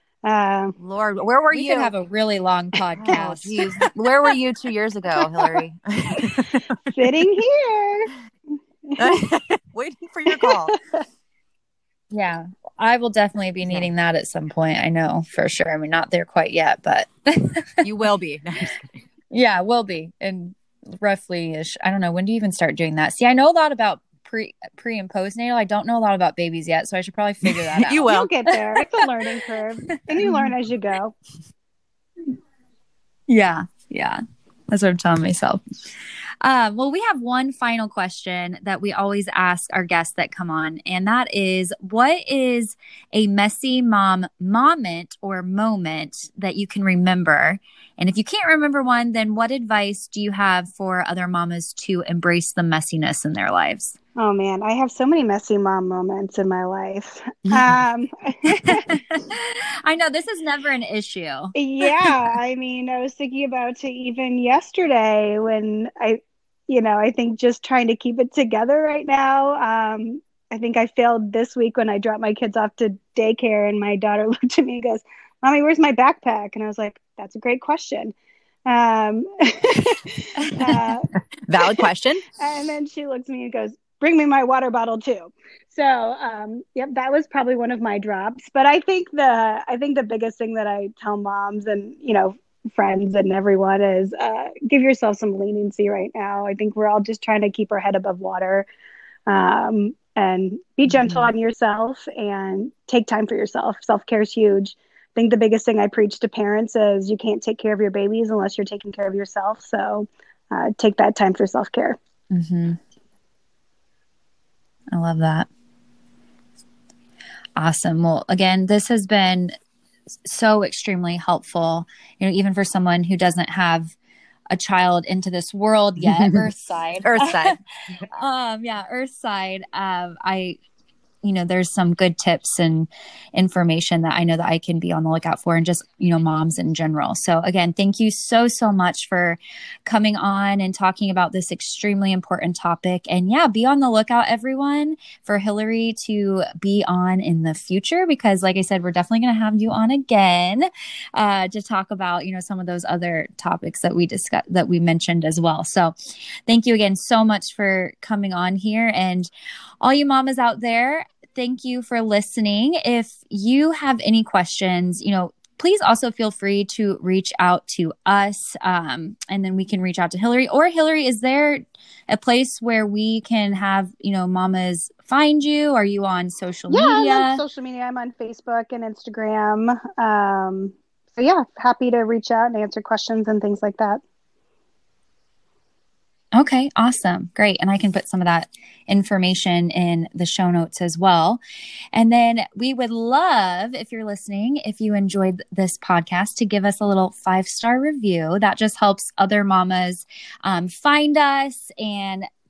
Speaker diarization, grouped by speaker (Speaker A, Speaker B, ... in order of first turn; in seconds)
Speaker A: 0.2-0.8, 6.9-8.1, 8.9-9.2, 10.3-10.8, 28.1-31.1, 54.2-58.8, 61.5-78.1, 78.7-98.7, 99.3-112.0, 176.7-184.0
Speaker B: 0.8-1.9, 3.0-6.9, 9.0-10.7, 13.6-13.9, 17.8-19.0, 27.5-28.3, 81.5-82.2, 126.0-126.5, 127.0-127.6
Speaker C: 1.5-3.8, 12.1-17.8, 19.3-29.0, 30.2-30.5, 33.3-35.6, 36.4-54.0, 58.5-62.1, 100.9-101.3, 112.3-112.8, 114.9-115.5, 117.5-119.5, 120.2-123.9, 124.5-127.5, 128.1-130.6, 131.2-155.9, 156.5-159.3, 159.8-177.4, 186.3-191.4, 191.9-202.3